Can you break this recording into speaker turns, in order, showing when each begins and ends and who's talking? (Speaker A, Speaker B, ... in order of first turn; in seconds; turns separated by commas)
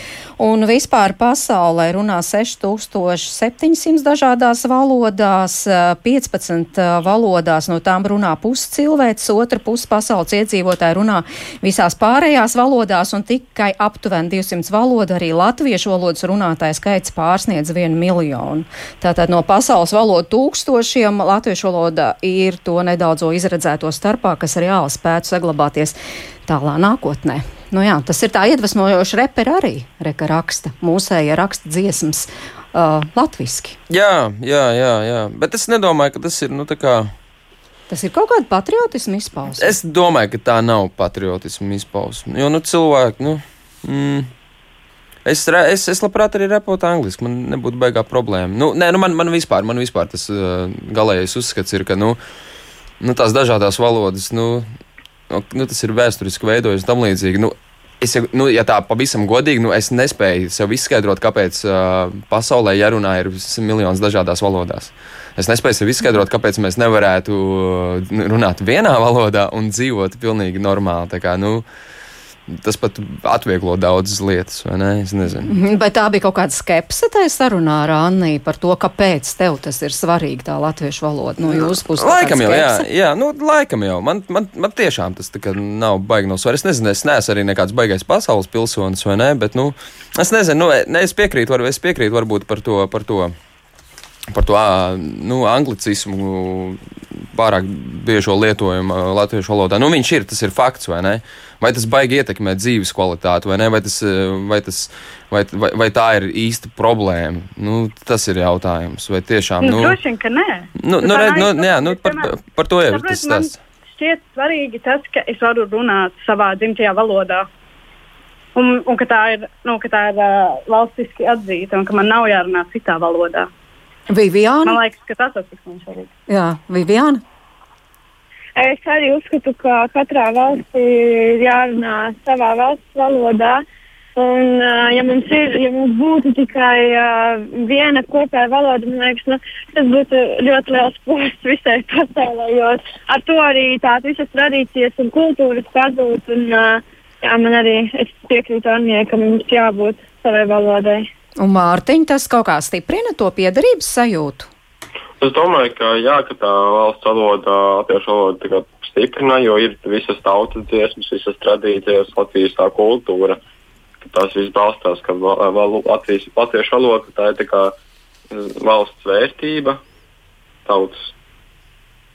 Speaker A: 0.4-33.8, Speaker B: 33.9-37.1, Speaker A: 37.9-39.8, Speaker B: 39.6-44.3, Speaker B: 45.2-52.2, Speaker B: 53.0-54.6, Speaker B: 55.3-71.6, Speaker B: 72.5-75.5, Speaker A: 75.5-82.8, Speaker B: 81.5-93.3, Speaker B: 94.3-110.0, Speaker C: 109.6-112.3, Speaker B: 110.8-113.5, Speaker C: 112.9-117.5, Speaker C: 118.5-123.5, Speaker A: 124.1-124.8, Speaker C: 124.6-126.1, Speaker A: 126.3-127.2, Speaker D: 128.6-133.6, Speaker D: 134.2-151.1, Speaker A: 151.4-154.5, Speaker E: 155.2-163.4, Speaker E: 164.0-167.7, Speaker E: 168.3-169.8, Speaker E: 170.7-171.1